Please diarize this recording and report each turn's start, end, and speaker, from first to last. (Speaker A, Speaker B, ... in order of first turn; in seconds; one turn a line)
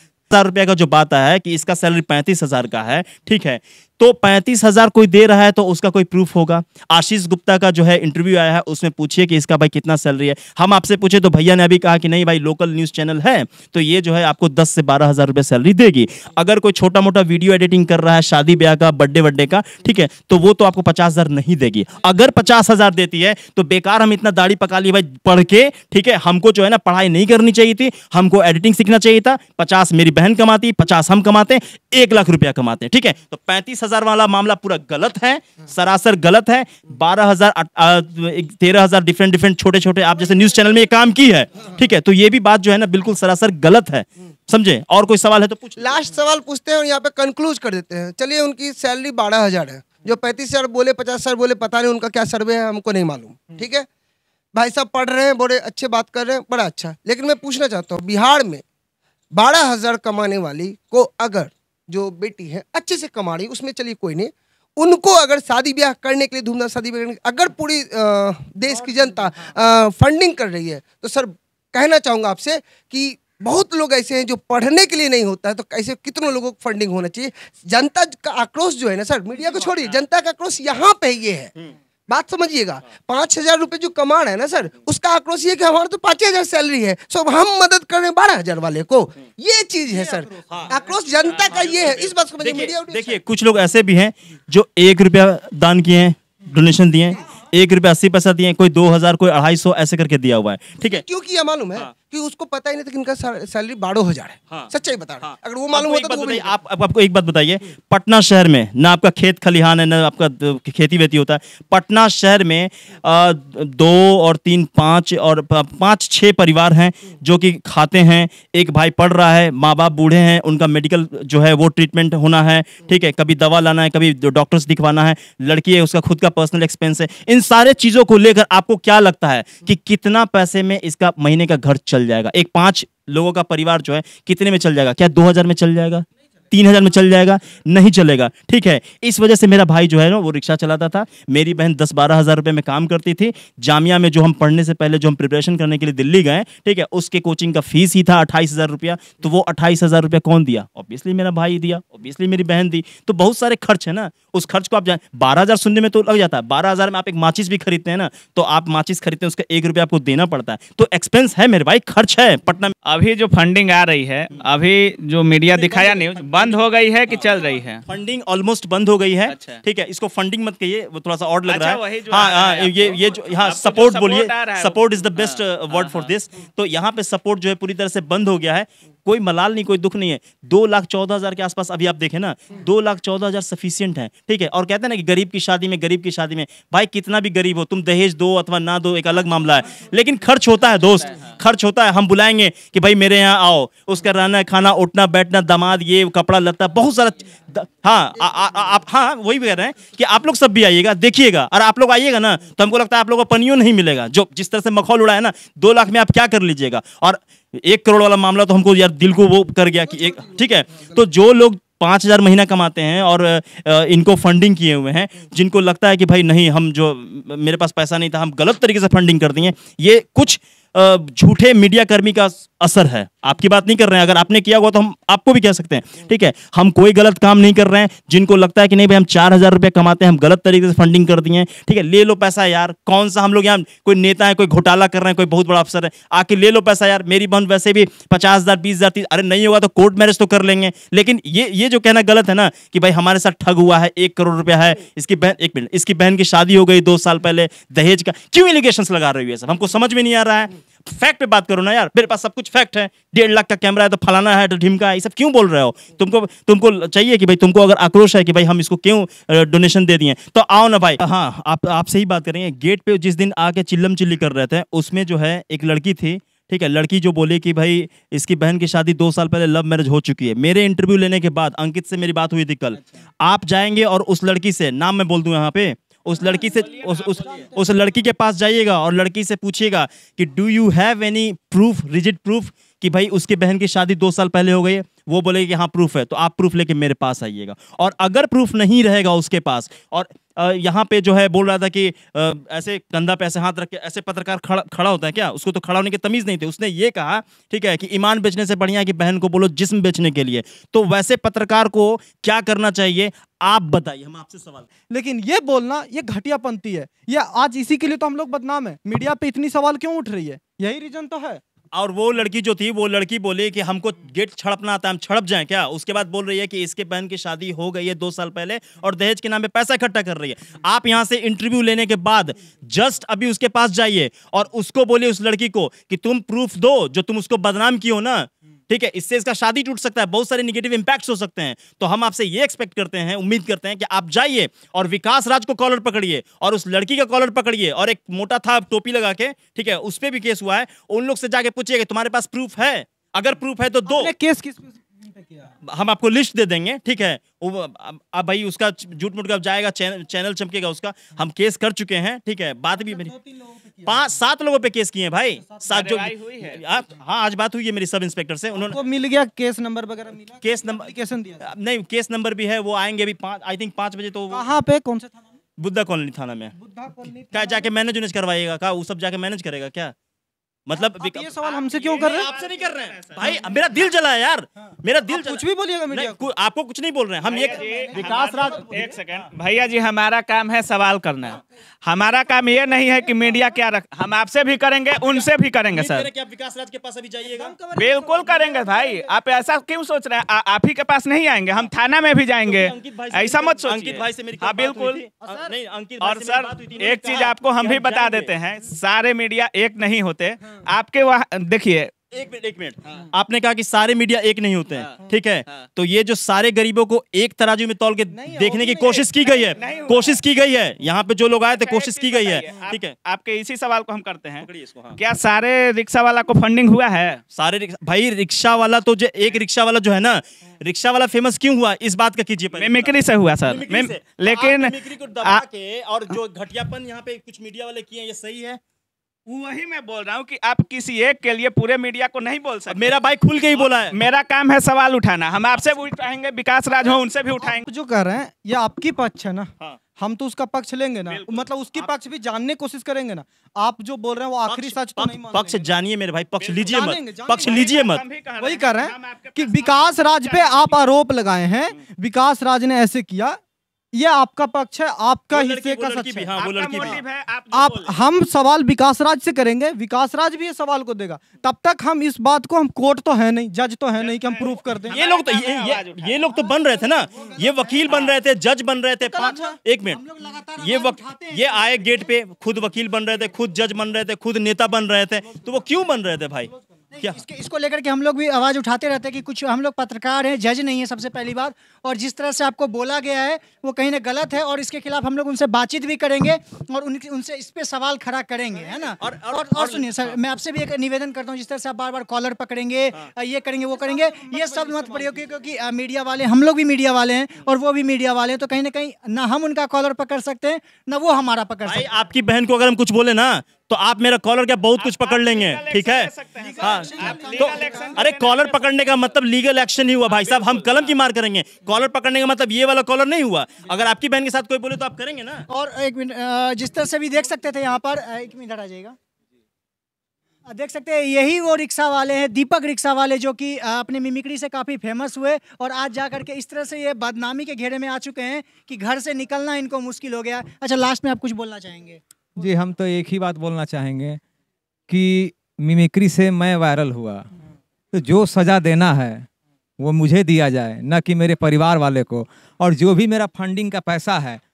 Speaker A: 0.3-46.0
Speaker B: 45.8-53.9
Speaker B: 54.5-58.6
Speaker B: 59.3-81.5
Speaker C: 68.7-69.2
Speaker B: 82.1-93.2
Speaker C: 89.9-90.8
Speaker D: 91.3-92.0
Speaker A: 91.5-91.7
Speaker A: 92.4-101.0
Speaker B: 100.8-106.5
Speaker A: 104.5-162.7
Speaker D: 162.8-167.8
Speaker A: 165.5-304.7
Speaker D: 169.3-169.6
Speaker D: 171.5-176.1
Speaker D: 191.0-191.3
Speaker D: 276.2-277.5
Speaker C: 304.9-311.4
Speaker A: 311.7-344.1
Speaker C: 343.9-345.5
Speaker A: 345.6-353.1
Speaker C: 352.9-354.0
Speaker A: 353.9-358.8
Speaker D: 355.7-356.6
Speaker C: 358.6-361.4
Speaker A: 360.4-364.5
Speaker C: 364.3-365.2
Speaker A: 365.6-366.6
Speaker C: 366.6-367.7
Speaker A: 367.3-369.9
Speaker A: 370.7-378.9
Speaker C: 370.8-372.3
Speaker D: 371.5-373.5
Speaker C: 375.1-376.2
Speaker D: 377.3-386.1
Speaker C: 377.3-379.0
Speaker A: 385.7-387.5
Speaker C: 387.2-389.1
Speaker D: 387.8-395.1
Speaker A: 392.4-398.3
Speaker C: 395.2-395.5
Speaker D: 396.0-401.9
Speaker A: 402.1-412.9
Speaker C: 408.1-409.9
Speaker D: 409.6-410.2
Speaker D: 411.5-417.2
Speaker A: 414.4-415.0
Speaker A: 417.3-428.6
Speaker D: 422.6-425.4
Speaker D: 429.3-433.0
Speaker A: 432.7-434.0
Speaker D: 433.5-437.7
Speaker C: 436.9-445.7
Speaker D: 441.1-441.9
Speaker A: 444.5-448.0
Speaker D: 446.4-446.9
Speaker C: 446.7-447.8
Speaker D: 447.4-450.9
Speaker C: 448.4-453.4
Speaker C: 453.9-457.0
Speaker A: 455.3-457.0
Speaker D: 456.4-458.0
Speaker C: 457.5-465.0
Speaker D: 464.0-466.3
Speaker A: 464.9-470.0
Speaker C: 466.7-467.5
Speaker D: 467.9-468.2
Speaker E: 469.1-472.1
Speaker A: 470.6-477.2
Speaker E: 477.0-501.9
Speaker A: 489.0-490.2
Speaker C: 493.7-495.3
Speaker A: 501.7-515.5
Speaker D: 504.8-509.0
Speaker C: 506.4-508.0
Speaker E: 506.6-508.0
Speaker D: 510.1-511.0
Speaker E: 515.5-519.0
Speaker E: 520.5-532.0
Speaker F: 532.4-534.2
Speaker F: 534.9-537.2
Speaker F: 537.9-539.2
Speaker F: 539.8-544.4